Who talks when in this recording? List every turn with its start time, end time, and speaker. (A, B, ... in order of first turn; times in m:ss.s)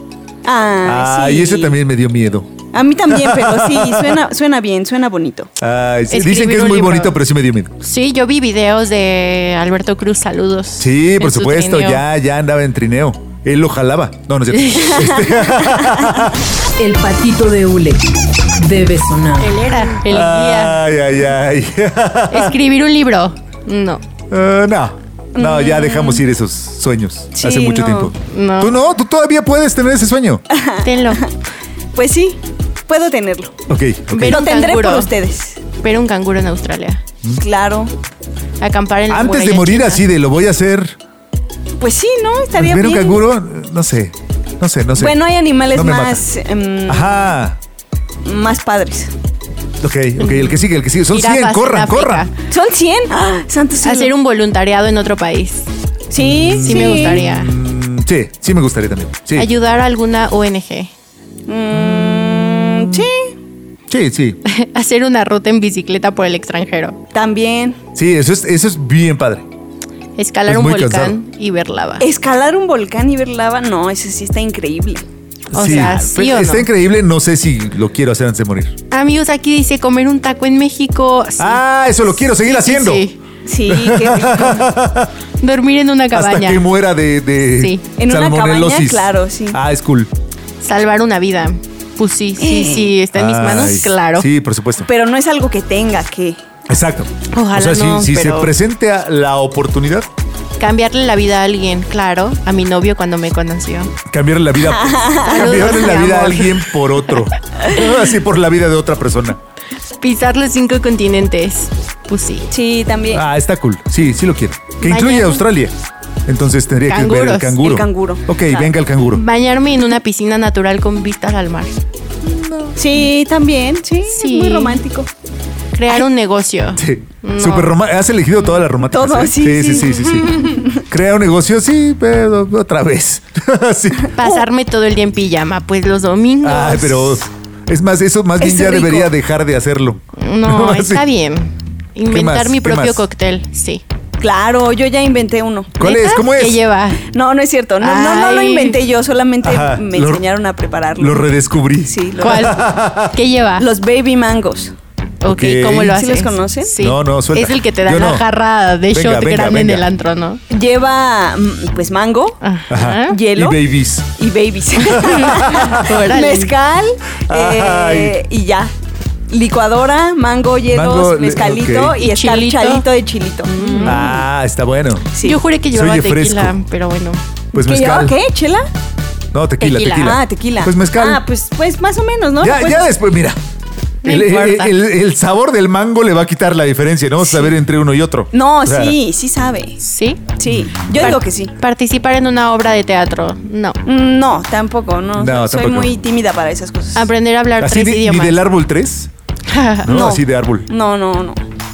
0:00.4-0:01.8 A
0:00.8-0:04.2 B
0:02.7-0:05.5 A
0:05.6-0:07.7 B
0:06.1-0:07.2 C
0:07.8-0:12.0 C
0:10.8-0:16.4 B
0:14.5-0:15.2 C
0:15.5-0:16.3 A
0:16.8-0:18.0 D
0:18.6-0:19.5 D
0:19.4-0:20.8 C
0:19.8-0:22.6 B
0:22.3-0:24.0 C
0:24.3-0:30.4 B
0:25.4-0:26.2 A
0:27.4-0:28.1 A
0:28.3-0:28.8 C
0:30.5-0:31.3 A
0:30.8-0:31.3 C
0:31.9-0:33.5 A
0:33.7-0:34.5 B
0:34.1-0:35.1 C
0:34.3-0:35.6 A
0:35.8-0:37.0 C
0:37.4-0:37.9 A
0:38.6-0:40.1 C
0:39.1-0:41.0 B
0:41.8-0:43.2 A
0:42.6-0:46.2 B
0:45.0-0:47.2 A
0:46.9-0:47.6 B
0:48.2-0:49.1 A
0:49.8-0:52.3 B
0:50.2-0:52.3 C
0:52.5-0:54.1 A
0:53.8-0:55.7 C
0:56.1-0:57.2 A
0:56.2-0:59.5 B
0:56.6-0:57.5 C
0:59.4-1:00.9 C
1:01.5-1:03.3 A
1:03.9-1:04.4 B
1:04.4-1:07.0 C
1:07.1-1:07.8 A
1:08.0-1:09.4 B
1:10.2-1:12.1 C
1:10.5-1:11.2 B
1:12.0-1:15.0 A
1:15.5-1:16.7 C
1:15.5-1:18.7 B
1:18.9-1:23.2 C
1:21.4-1:23.0 B
1:23.5-1:24.7 A
1:23.7-1:25.1 B
1:25.4-1:26.6 C
1:26.1-1:30.1 B
1:27.6-1:27.8 C
1:28.0-1:29.6 A
1:30.6-1:34.3 C
1:32.4-1:32.9 A
1:33.1-1:34.9 B
1:34.8-1:36.4 A
1:36.7-1:40.1 B
1:37.3-1:38.5 C
1:40.6-1:43.9 C
1:44.1-1:49.4 B
1:44.6-1:46.0 A
1:45.2-1:46.6 C
1:50.0-1:52.5 C
1:52.5-1:53.2 A
1:53.1-1:55.7 B
1:54.8-1:55.4 C
1:56.3-1:59.2 B
1:56.9-1:57.8 C
1:57.6-1:58.7 A
1:59.1-2:01.8 C
2:02.2-2:02.8 B
2:02.8-2:05.1 A
2:04.1-2:04.8 C
2:05.7-2:07.8 C
2:06.8-2:14.2 B
2:08.8-2:10.8 A
2:10.0-2:10.5 C
2:14.2-2:17.3 C
2:16.4-2:21.0 B
2:18.4-2:19.1 A
2:20.2-2:23.8 C
2:22.1-2:23.0 B
2:24.2-2:26.1 A
2:25.8-2:26.6 B
2:25.8-2:27.0 C
2:27.1-2:31.3 A
2:27.8-2:28.8 C
2:29.4-2:30.2 B
2:31.0-2:33.2 B
2:31.9-2:32.6 A
2:32.2-2:33.7 C
2:33.6-2:34.7 A
2:35.2-2:40.4 C
2:35.2-2:36.0 B
2:35.9-2:36.8 A
2:36.7-2:38.2 B
2:38.9-2:39.9 B
2:40.5-2:42.4 A
2:42.4-2:43.2 C
2:42.7-2:44.2 B
2:43.1-2:43.6 A
2:44.2-2:48.7 A
2:44.8-2:46.0 B
2:45.0-2:46.5 C
2:47.3-2:48.2 B
2:49.3-2:54.2 A
2:50.7-2:52.0 B
2:52.0-2:52.9 C
2:53.5-2:54.2 C
2:53.8-2:55.1 B
2:55.2-2:55.4 A
2:55.2-2:57.2 C
2:55.7-2:56.6 B
2:57.5-2:58.2 B
2:57.6-2:58.6 A
2:59.3-3:01.2 B
2:59.6-3:00.2 C
3:00.0-3:03.0 A
3:02.4-3:03.4 B
3:04.0-3:04.8 C
3:04.0-3:09.0 B
3:07.2-3:07.5 C
3:08.3-3:09.8 A
3:09.8-3:10.2 C
3:10.4-3:11.5 A
3:11.0-3:13.8 C
3:13.8-3:17.1 A
3:15.2-3:16.0 B
3:17.0-3:18.5 C
3:17.6-3:19.1 B
3:19.5-3:20.2 C
3:19.8-3:20.7 B
3:20.7-3:21.4 A